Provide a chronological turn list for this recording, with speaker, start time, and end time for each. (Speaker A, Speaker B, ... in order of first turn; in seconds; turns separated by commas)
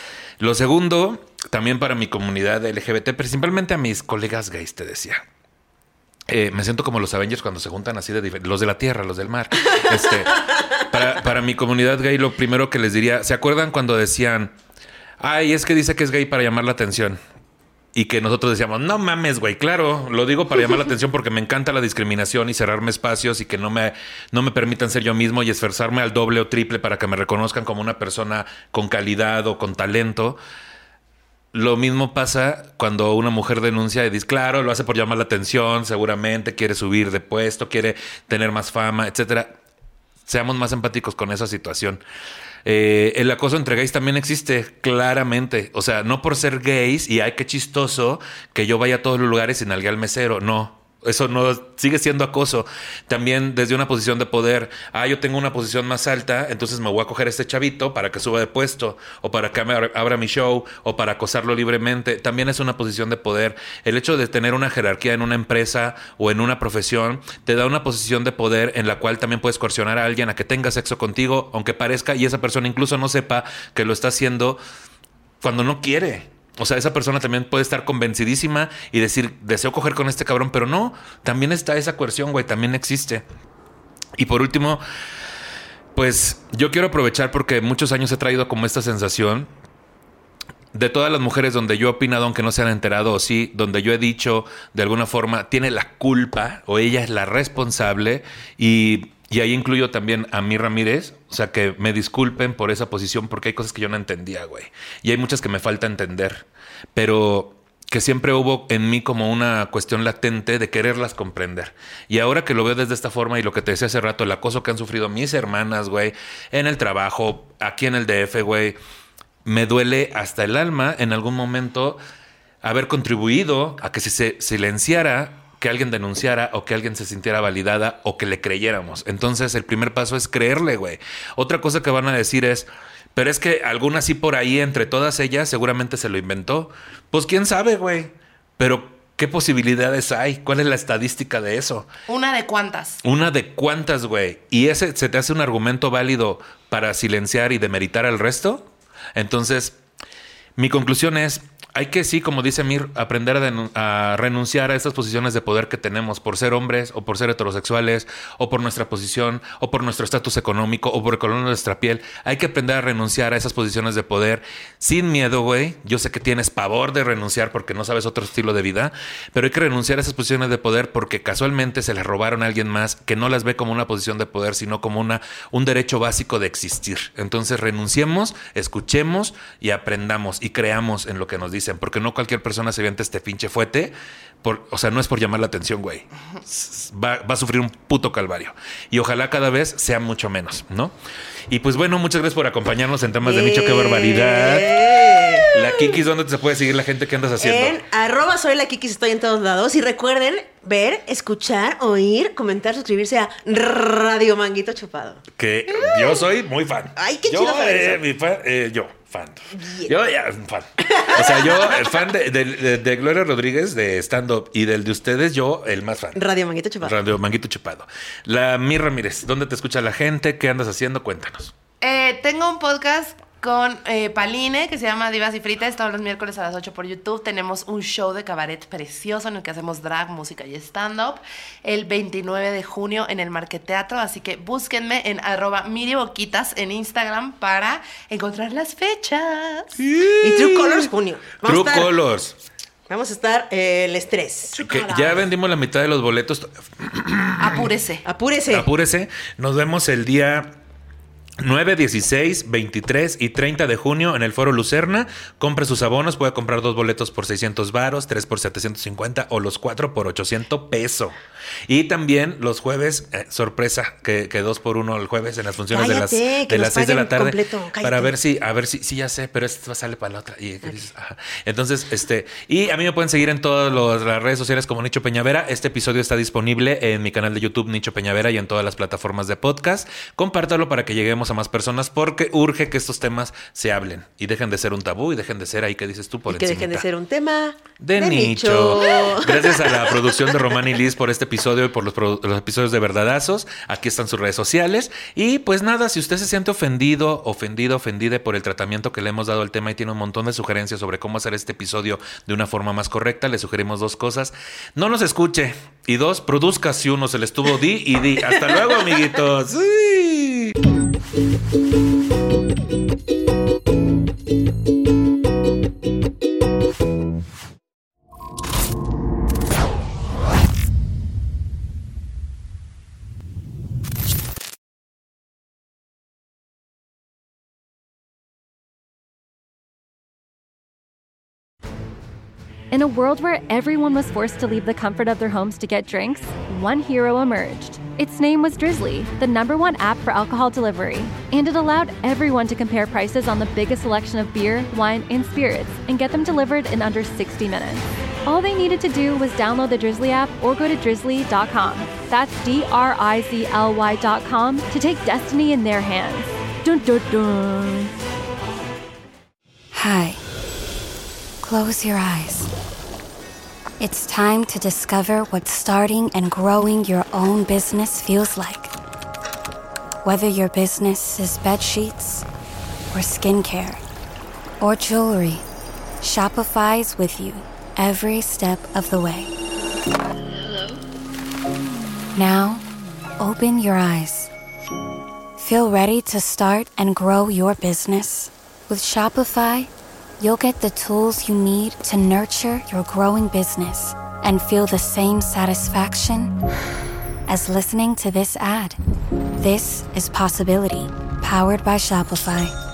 Speaker A: 0.4-5.2, Speaker A: 6.3-14.5, Speaker A: 15.2-17.2, Speaker A: 17.9-30.4, Speaker A: 31.5-39.5, Speaker A: 40.2-42.0, Speaker A: 42.6-74.6, Speaker A: 75.4-83.2, Speaker A: 84.2-84.8, Speaker A: 85.9-89.5, Speaker A: 90.7-118.8, Speaker A: 119.4-122.0, Speaker A: 122.6-141.9, Speaker B: 142.1-143.0, Speaker A: 143.0-149.8, Speaker A: 150.6-190.9, Speaker A: 191.5-197.8, Speaker C: 193.2-196.0, Speaker C: 197.4-206.2, Speaker A: 205.4-216.2, Speaker C: 206.9-208.0, Speaker C: 209.5-209.9, Speaker C: 210.9-211.8, Speaker C: 216.1-216.9, Speaker A: 216.8-221.5, Speaker B: 221.8-239.7, Speaker A: 239.8-240.9, Speaker C: 240.2-241.9, Speaker A: 241.4-242.4, Speaker C: 242.9-244.6, Speaker B: 244.5-245.3, Speaker A: 244.7-247.6, Speaker B: 247.4-248.0, Speaker C: 248.0-248.7, Speaker A: 248.5-250.6, Speaker A: 251.4-261.1, Speaker A: 261.7-286.8, Speaker C: 265.7-268.1, Speaker C: 286.3-290.0, Speaker A: 287.8-310.5, Speaker C: 308.2-309.1, Speaker D: 332.7-357.9, Speaker E: 359.7-360.2, Speaker E: 361.4-362.5, Speaker E: 363.8-368.7, Speaker E: 370.0-372.2, Speaker E: 372.9-373.8, Speaker E: 374.6-375.4, Speaker E: 376.0-379.3, Speaker E: 382.1-382.6, Speaker E: 383.2-384.3, Speaker E: 385.4-396.3, Speaker E: 397.3-398.8, Speaker E: 399.4-402.5